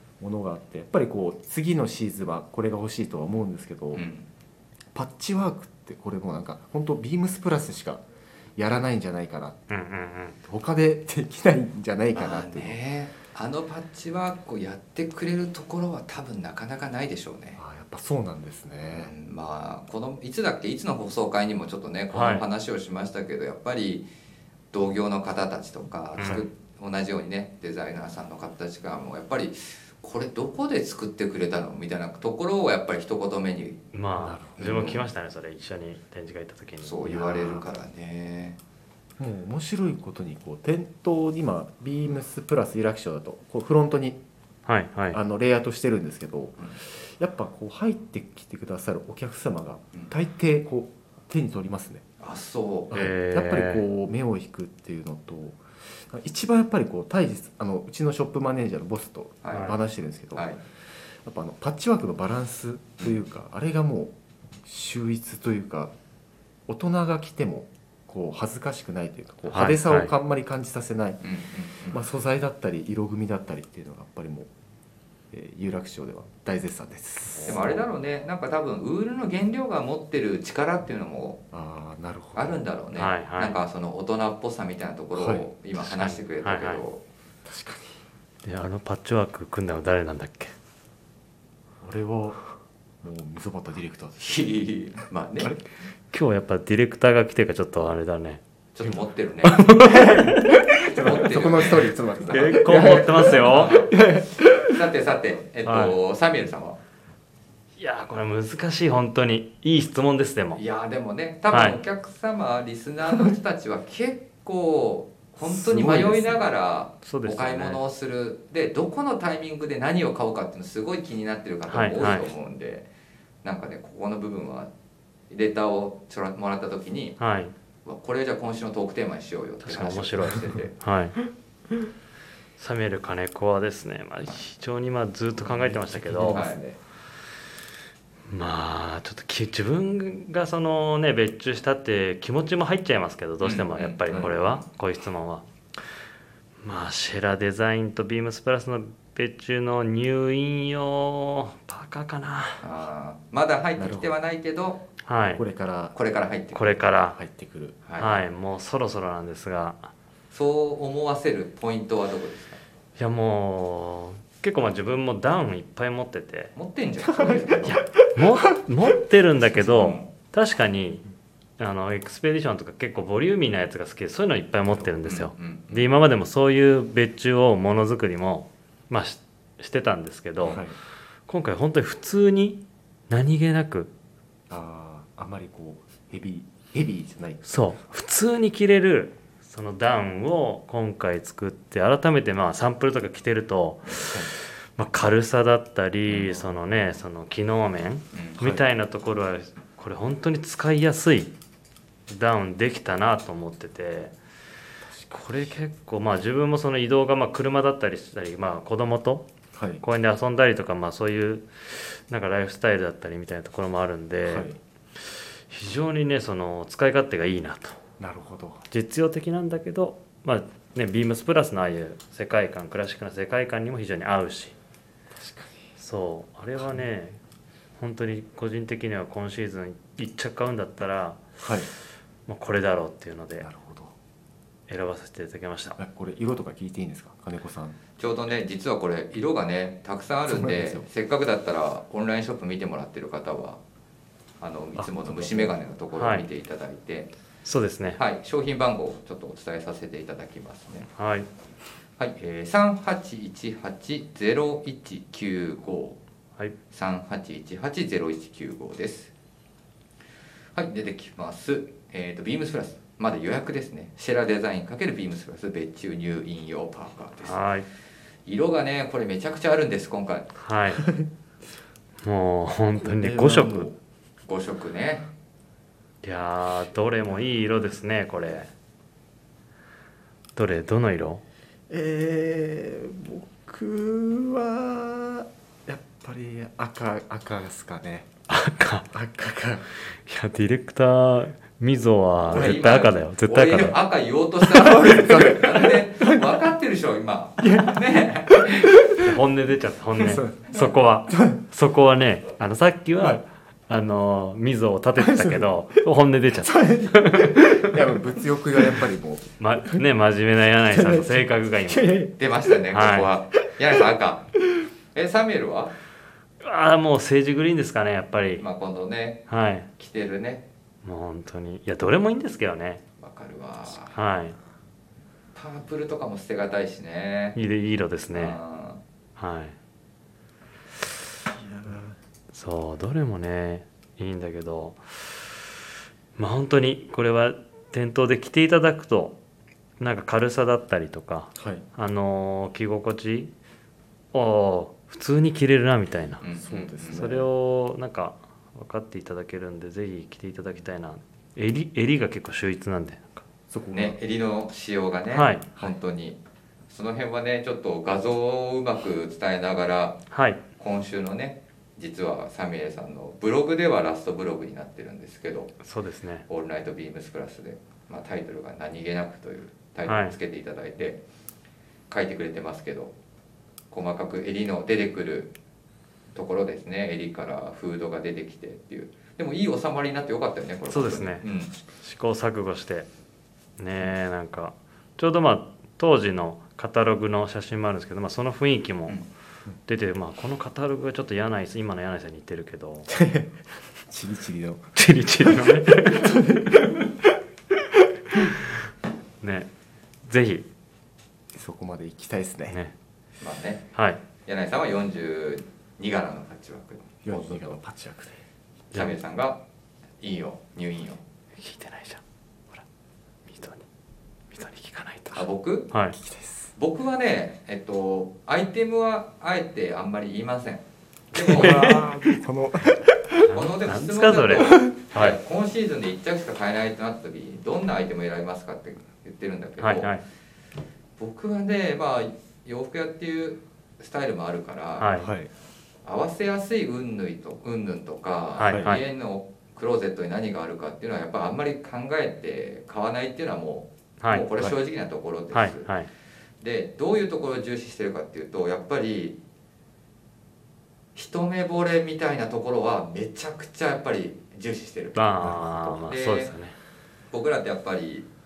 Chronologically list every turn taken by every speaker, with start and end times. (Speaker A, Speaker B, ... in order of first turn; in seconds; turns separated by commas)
Speaker A: 0.2-4.0, Speaker B: 3.9-4.2, Speaker A: 4.9-8.0, Speaker A: 8.6-9.6, Speaker C: 9.7-10.4, Speaker A: 10.4-12.8, Speaker B: 12.1-17.6, Speaker A: 17.6-19.1, Speaker B: 18.9-24.1, Speaker C: 22.1-22.4, Speaker B: 24.7-33.8, Speaker C: 26.1-26.4, Speaker A: 26.2-26.5, Speaker C: 33.9-37.6, Speaker A: 34.2-34.8, Speaker B: 34.6-35.0, Speaker B: 36.8-38.6, Speaker A: 39.2-44.2, Speaker C: 44.6-45.2, Speaker A: 45.1-52.0, Speaker B: 52.2-52.9, Speaker A: 52.9-60.5, Speaker C: 52.9-53.8, Speaker B: 59.4-59.7, Speaker B: 60.3-60.6, Speaker A: 61.2-65.9, Speaker A: 66.7-71.2, Speaker C: 69.5-70.1, Speaker B: 71.2-72.0, Speaker A: 71.9-74.5, Speaker A: 75.3-77.8, Speaker C: 77.4-77.6, Speaker B: 77.5-81.4, Speaker A: 81.5-82.6, Speaker B: 82.3-87.0, Speaker C: 82.9-83.6, Speaker A: 85.1-85.5, Speaker C: 85.8-86.8, Speaker A: 87.4-88.0, Speaker C: 88.4-90.5, Speaker A: 91.8-92.4, Speaker A: 93.0-94.3, Speaker B: 94.2-95.5, Speaker C: 96.1-98.4, Speaker B: 98.8-99.6, Speaker C: 99.4-100.6, Speaker A: 99.8-104.8, Speaker B: 101.0-102.4, Speaker C: 102.3-103.8, Speaker B: 103.3-103.9, Speaker B: 104.6-106.8, Speaker C: 105.6-106.0, Speaker C: 107.8-110.6, Speaker B: 110.5-122.9, Speaker C: 111.5-111.8, Speaker C: 115.6-116.4, Speaker C: 117.0-117.8, Speaker C: 121.7-122.3, Speaker B: 123.4-124.7, Speaker B: 125.3-127.2, Speaker C: 127.2-127.5, Speaker B: 127.8-130.7, Speaker C: 129.6-131.2, Speaker C: 132.6-136.4, Speaker A: 135.3-136.8, Speaker B: 136.2-136.6, Speaker C: 138.3-145.4, Speaker B: 143.4-144.6, Speaker C: 146.6-152.6, Speaker B: 152.6-154.8, Speaker A: 153.8-154.1, Speaker C: 155.0-155.4, Speaker A: 155.3-155.9, Speaker B: 155.9-156.8, Speaker C: 156.5-157.2, Speaker A: 156.9-157.8, Speaker B: 157.8-158.2, Speaker C: 158.0-159.9, Speaker B: 160.3-162.6, Speaker C: 163.0-166.5, Speaker B: 166.5-167.8, Speaker A: 167.0-168.6, Speaker C: 167.7-171.0, Speaker B: 169.6-170.1, Speaker C: 171.6-180.6, Speaker B: 175.0-175.9, Speaker A: 180.5-180.8, Speaker C: 181.3-183.9, Speaker A: 184.5-187.4, Speaker C: 187.4-194.2, Speaker A: 194.0-194.3, Speaker C: 194.8-201.3, Speaker A: 196.1-196.4, Speaker C: 202.1-204.1, Speaker A: 204.8-205.5, Speaker C: 205.1-209.3, Speaker A: 209.5-209.8, Speaker C: 209.8-217.8, Speaker A: 214.2-214.6, Speaker A: 218.0-218.6, Speaker C: 218.7-224.5, Speaker A: 225.1-225.7, Speaker C: 225.8-227.2, Speaker A: 226.6-226.9, Speaker C: 227.8-231.2, Speaker A: 231.4-231.7, Speaker C: 232.3-233.5, Speaker A: 233.4-233.9, Speaker C: 234.7-235.8, Speaker A: 235.8-237.8, Speaker B: 238.0-243.6, Speaker A: 240.3-240.9, Speaker B: 244.4-247.1, Speaker A: 244.8-245.6, Speaker C: 245.9-246.2, Speaker C: 247.4-248.0, Speaker B: 248.0-250.9, Speaker C: 250.9-251.3, Speaker B: 252.0-256.0, Speaker B: 256.7-259.1, Speaker B: 260.5-267.4, Speaker C: 267.2-267.6, Speaker B: 268.2-270.3, Speaker C: 270.4-270.9, Speaker C: 272.0-273.7, Speaker A: 272.8-273.8, Speaker B: 274.2-275.1, Speaker C: 276.0-278.5, Speaker C: 280.4-281.2, Speaker A: 281.7-288.1, Speaker C: 288.3-288.9, Speaker A: 288.9-289.7, Speaker C: 289.9-293.8, Speaker B: 292.3-298.7, Speaker A: 292.3-292.6, Speaker A: 294.5-296.3, Speaker A: 297.4-299.0, Speaker C: 299.0-307.8, Speaker A: 300.0-301.4, Speaker A: 305.0-305.5, Speaker A: 306.4-309.8, Speaker C: 309.4-311.9, Speaker A: 310.7-312.5, Speaker B: 312.2-314.3, Speaker C: 312.7-313.1, Speaker B: 314.9-315.7, Speaker C: 316.4-318.4, Speaker B: 318.4-319.2, Speaker C: 319.3-319.7, Speaker B: 319.8-320.4, Speaker C: 320.8-322.8, Speaker B: 323.0-324.0, Speaker C: 323.9-324.4, Speaker B: 325.3-327.4, Speaker C: 327.3-328.4, Speaker B: 328.1-328.8, Speaker C: 329.2-329.6, Speaker A: 331.3-331.9, Speaker C: 332.3-335.3, Speaker C: 336.2-339.2, Speaker C: 339.8-343.3, Speaker A: 341.4-341.6, Speaker C: 344.1-346.2, Speaker B: 346.2-347.0, Speaker A: 346.4-347.3, Speaker C: 346.9-353.3, Speaker A: 353.5-354.0, Speaker B: 353.7-356.2, Speaker C: 355.1-355.5, Speaker B: 356.7-360.0, Speaker C: 360.1-360.4, Speaker B: 360.6-365.5, Speaker C: 365.6-366.2, Speaker B: 366.3-371.0, Speaker C: 369.9-370.2, Speaker B: 371.9-372.9, Speaker B: 373.7-375.3, Speaker B: 376.1-381.5, Speaker C: 380.7-381.2, Speaker C: 381.8-382.9, Speaker C: 383.6-389.0, Speaker C: 389.7-392.9, Speaker A: 392.9-397.1, Speaker C: 394.8-396.3, Speaker C: 399.2-399.5, Speaker C: 400.1-400.5, Speaker A: 401.3-402.6, Speaker C: 402.5-402.7, Speaker B: 403.2-403.7, Speaker C: 403.7-404.0, Speaker B: 404.2-407.6, Speaker A: 407.0-408.2, Speaker B: 408.7-409.4, Speaker B: 410.0-411.0, Speaker C: 411.4-412.0, Speaker C: 413.3-413.6, Speaker C: 414.3-416.0, Speaker B: 415.1-415.7, Speaker A: 416.0-416.5, Speaker B: 416.6-421.8, Speaker C: 421.1-422.0, Speaker A: 421.2-423.3, Speaker C: 423.3-425.2, Speaker B: 423.3-429.9, Speaker A: 424.5-424.7, Speaker C: 429.6-430.0, Speaker B: 431.0-434.9, Speaker C: 434.8-435.1, Speaker A: 434.9-435.3, Speaker B: 435.8-445.7, Speaker C: 438.4-438.8, Speaker A: 438.5-438.8, Speaker C: 444.0-444.5, Speaker C: 445.3-445.9, Speaker B: 446.4-449.2, Speaker B: 450.9-456.3, Speaker C: 454.9-456.6, Speaker A: 455.2-455.8, Speaker B: 457.1-458.1